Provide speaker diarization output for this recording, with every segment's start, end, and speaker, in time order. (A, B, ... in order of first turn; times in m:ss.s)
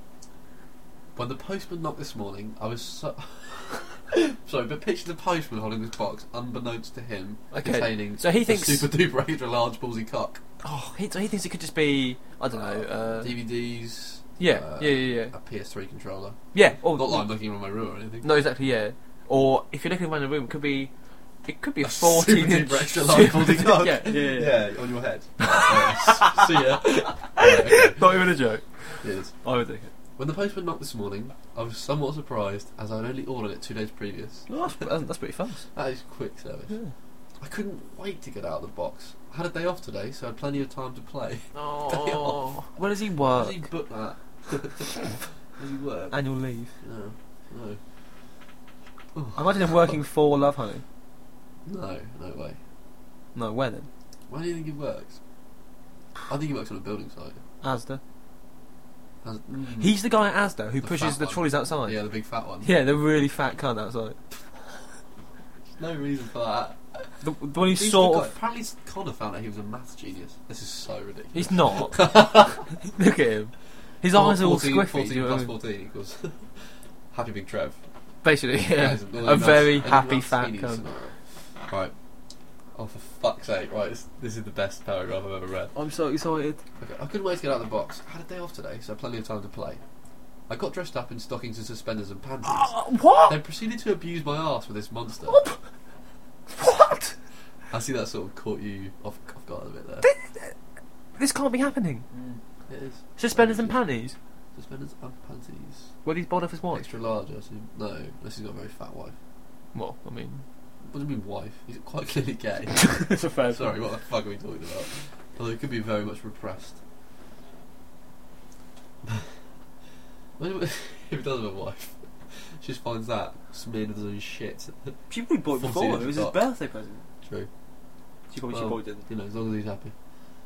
0:01.2-0:10.4 A
0:07.5-0:08.9 B
0:10.6-0:13.4 B
0:12.5-0:18.3 A
0:14.4-0:15.3 B
0:16.5-0:17.3 B
0:18.2-0:20.9 B
0:21.4-0:24.6 B
0:21.8-0:28.2 A
0:25.4-0:28.6 B
0:29.0-0:29.3 A
0:29.4-0:29.9 B
0:30.2-0:34.8 A
0:34.5-0:35.7 B
0:35.7-0:36.8 A
0:37.4-0:46.2 A
0:41.5-0:43.7 B
0:46.1-0:46.7 B
0:46.8-0:47.8 A
0:49.1-0:50.0 A
0:49.4-0:50.8 B
0:51.6-0:52.6 A
0:53.3-0:53.9 B
0:54.3-0:55.2 A
0:56.3-0:57.4 A
0:57.6-0:58.0 B
0:59.2-1:00.0 A
0:59.8-1:02.0 B
1:00.8-1:02.7 A
1:02.6-1:04.2 B
1:05.8-1:12.6 A
1:07.2-1:08.3 B
1:11.3-1:12.1 B
1:12.7-1:15.5 B
1:14.1-1:16.5 A
1:17.1-1:17.8 A
1:18.2-1:20.8 B
1:18.7-1:21.2 A
1:21.7-1:21.9 A
1:22.7-1:25.7 A
1:25.7-1:26.6 B
1:26.8-1:29.8 A
1:30.5-1:35.4 A
1:32.4-1:33.4 B
1:35.3-1:35.6 B
1:36.5-1:37.1 B
1:37.7-1:40.1 A
1:40.0-1:40.6 B
1:41.2-1:42.0 B
1:42.1-1:43.8 A
1:43.2-1:44.2 B
1:44.5-1:45.9 A
1:46.0-1:46.9 B
1:46.7-1:49.2 A
1:49.7-1:50.4 B
1:50.8-1:56.8 A
1:52.7-1:53.8 B
2:00.4-2:05.0 A
2:05.1-2:07.0 B
2:05.5-2:06.4 A
2:07.2-2:07.5 A
2:08.3-2:09.1 B
2:08.5-2:09.9 A